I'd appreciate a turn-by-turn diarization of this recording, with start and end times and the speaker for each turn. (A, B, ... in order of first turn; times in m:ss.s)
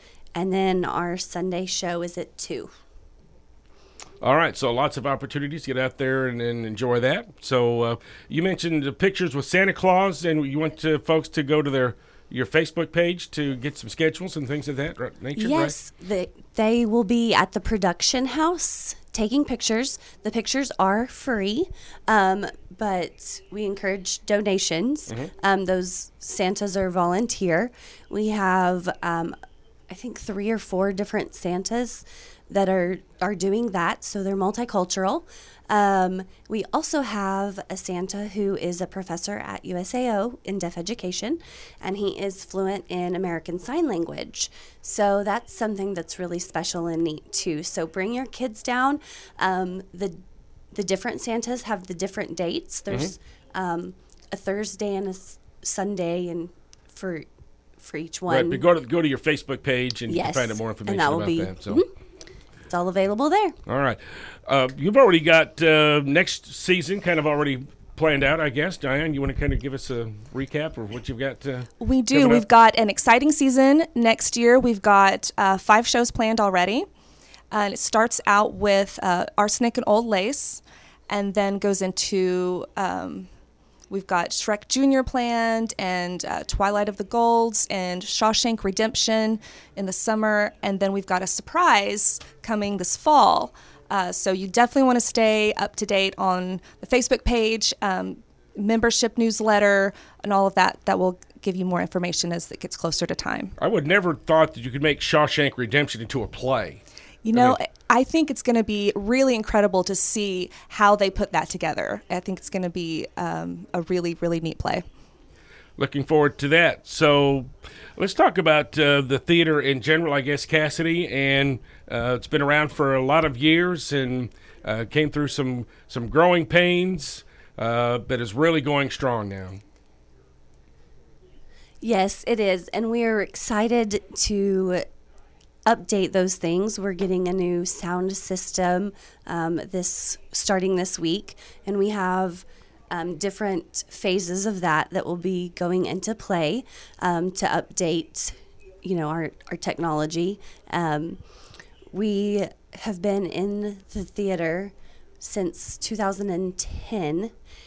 0:00.4-0:02.7 A
0:04.2-0:15.7 B
0:15.4-0:29.4 A
0:29.9-0:50.2 A
0:50.7-0:57.3 A
0:57.8-0:58.6 A
0:58.3-1:01.8 B
1:00.1-1:01.9 A
1:02.7-1:03.6 A
1:03.7-1:12.4 B
1:11.8-1:16.9 C
1:17.5-1:23.3 C
1:23.9-1:43.6 C
1:43.6-1:46.8 B
1:47.2-1:54.8 C
1:55.8-2:09.6 B
2:11.8-2:14.9 A
2:15.7-2:31.2 A
2:31.9-2:37.3 A